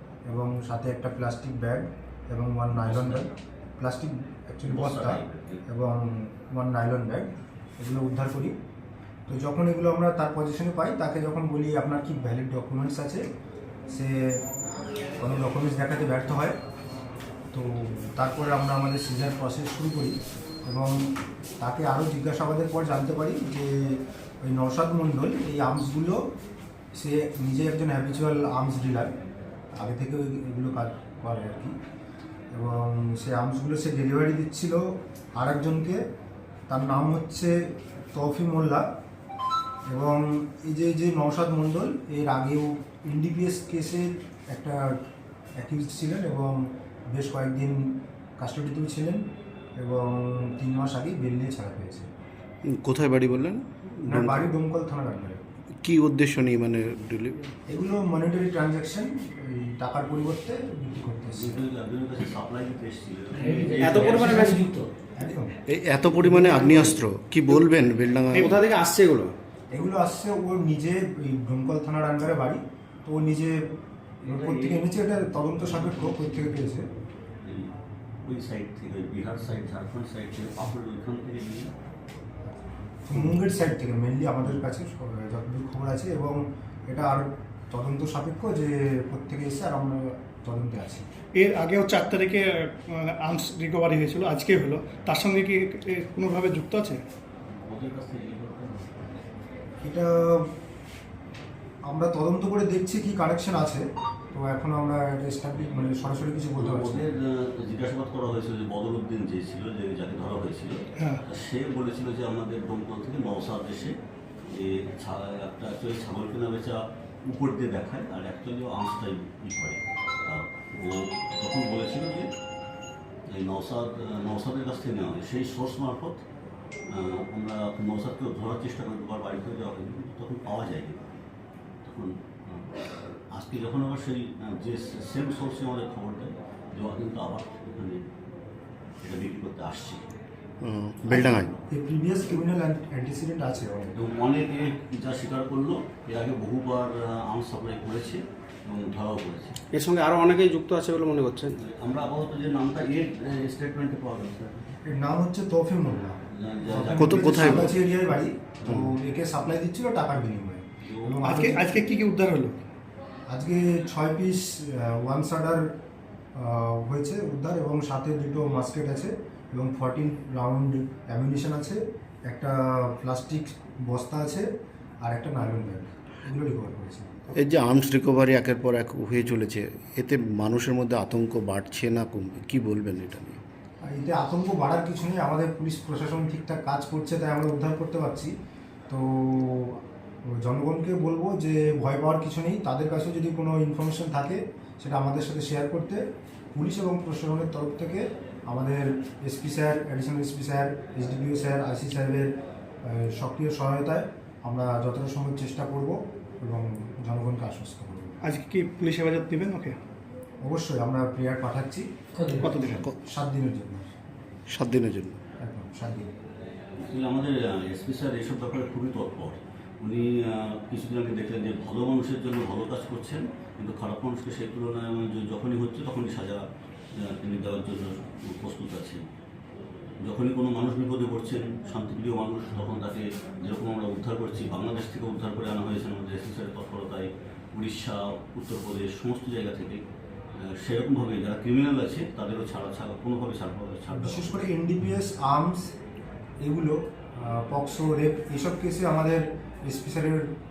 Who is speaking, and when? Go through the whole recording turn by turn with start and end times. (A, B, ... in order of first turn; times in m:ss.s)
0:00.3-0:08.6 A
0:02.7-0:03.3 B
0:04.7-0:05.6 B
0:09.3-0:13.2 A
0:13.9-0:14.4 A
0:15.2-0:16.6 A
0:17.5-0:21.0 A
0:21.6-0:26.2 A
0:27.0-0:29.1 A
0:29.8-0:31.8 A
0:32.5-0:34.8 A
0:35.4-0:36.0 A
0:36.7-0:37.5 A
0:38.1-0:38.8 A
0:39.9-0:44.9 A
0:45.6-0:49.2 A
0:49.8-0:52.1 A
0:52.7-0:54.5 C
0:54.0-0:55.4 A
0:55.8-0:57.5 C
0:57.7-1:01.6 A
1:01.4-1:04.7 B
1:03.7-1:04.9 D
1:05.2-1:05.6 A
1:05.7-1:08.6 C
1:06.1-1:07.0 A
1:08.3-1:09.4 D
1:09.7-1:13.6 A
1:14.2-1:14.9 B
1:14.2-1:16.8 A
1:15.6-1:16.1 B
1:17.4-1:17.7 B
1:18.2-1:21.7 B
1:23.1-1:31.0 A
1:31.4-1:37.0 E
1:37.5-1:39.0 B
1:39.8-1:40.5 A
1:41.9-1:47.1 A
1:45.6-1:54.0 B
1:54.5-2:02.3 B
2:03.3-2:06.2 B
2:06.9-2:11.1 B
2:11.8-2:12.7 B
2:13.3-2:18.0 B
2:19.0-2:20.1 B
2:20.6-2:21.5 C
2:21.1-2:21.6 B
2:21.1-2:24.1 A
2:23.9-2:29.6 B
2:29.7-2:31.6 D
2:31.6-2:34.7 B
2:34.9-2:41.8 A
2:36.4-2:37.8 B
2:37.0-2:37.7 C
2:38.6-2:38.9 C
2:40.8-2:41.2 B
2:41.2-2:42.6 E
2:43.3-2:45.7 A
2:46.4-2:54.5 A
2:55.0-2:57.4 A
2:57.4-3:03.4 C
3:03.8-3:08.3 A
3:08.9-3:16.0 A
3:16.5-3:22.3 A
3:22.9-3:28.2 A
3:28.2-3:29.8 E
3:30.4-3:31.9 A
3:32.4-3:33.0 C
3:32.8-3:33.9 A
3:34.5-3:35.2 C
3:35.4-3:36.1 A
3:36.8-3:46.4 B
3:47.0-3:49.0 B
3:50.0-3:59.8 B
4:00.4-4:04.5 B
4:03.9-4:05.7 A
4:06.4-4:10.3 A